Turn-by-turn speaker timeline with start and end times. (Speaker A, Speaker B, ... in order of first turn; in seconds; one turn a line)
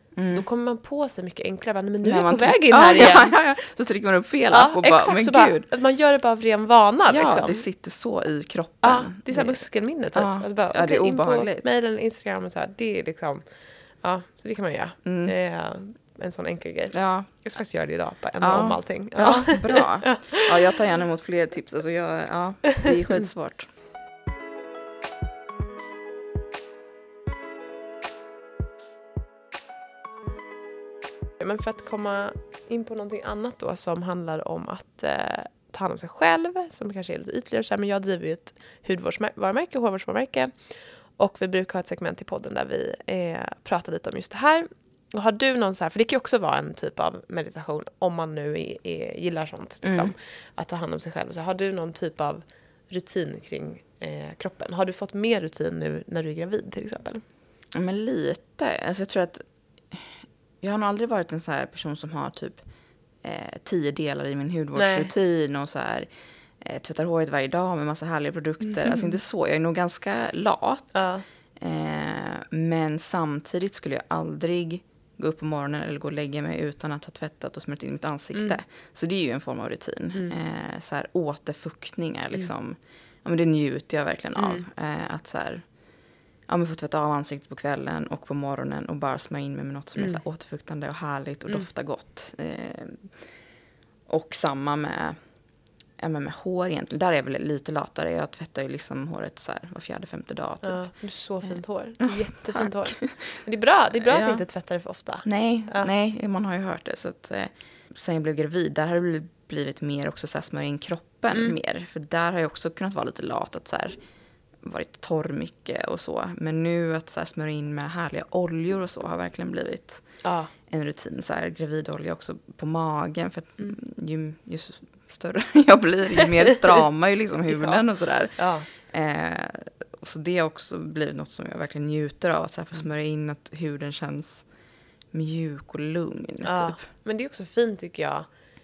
Speaker A: 0.1-0.4
Speaker B: 0.3-3.3
Speaker A: 2.0-5.7
Speaker B: 4.5-7.6
Speaker A: 7.1-9.6
Speaker B: 8.8-13.4
Speaker A: 10.1-11.7
Speaker B: 14.0-20.5
Speaker A: 15.0-15.3
Speaker A: 16.9-17.3
Speaker A: 18.4-23.7
Speaker B: 31.4-57.2
Speaker A: 49.8-50.1
Speaker A: 57.7-62.6
Speaker A: 63.2-66.1
Speaker B: 64.7-65.1
Speaker A: 66.6-71.0
Speaker B: 70.9-71.2
Speaker A: 71.6-85.7
Speaker B: 78.3-78.6
Speaker B: 84.4-84.7
Speaker A: 86.5-93.2
Speaker A: 94.1-95.2
Speaker A: 96.0-100.9
Speaker B: 100.6-105.9
Speaker A: 101.4-103.4
Speaker A: 104.0-104.4
Speaker A: 105.2-114.0
Speaker A: 114.6-120.0
Speaker B: 120.2-120.5
Speaker A: 120.7-134.5
Speaker B: 127.5-127.8
Speaker B: 128.4-128.7
Speaker A: 135.1-136.8
Speaker B: 136.4-138.3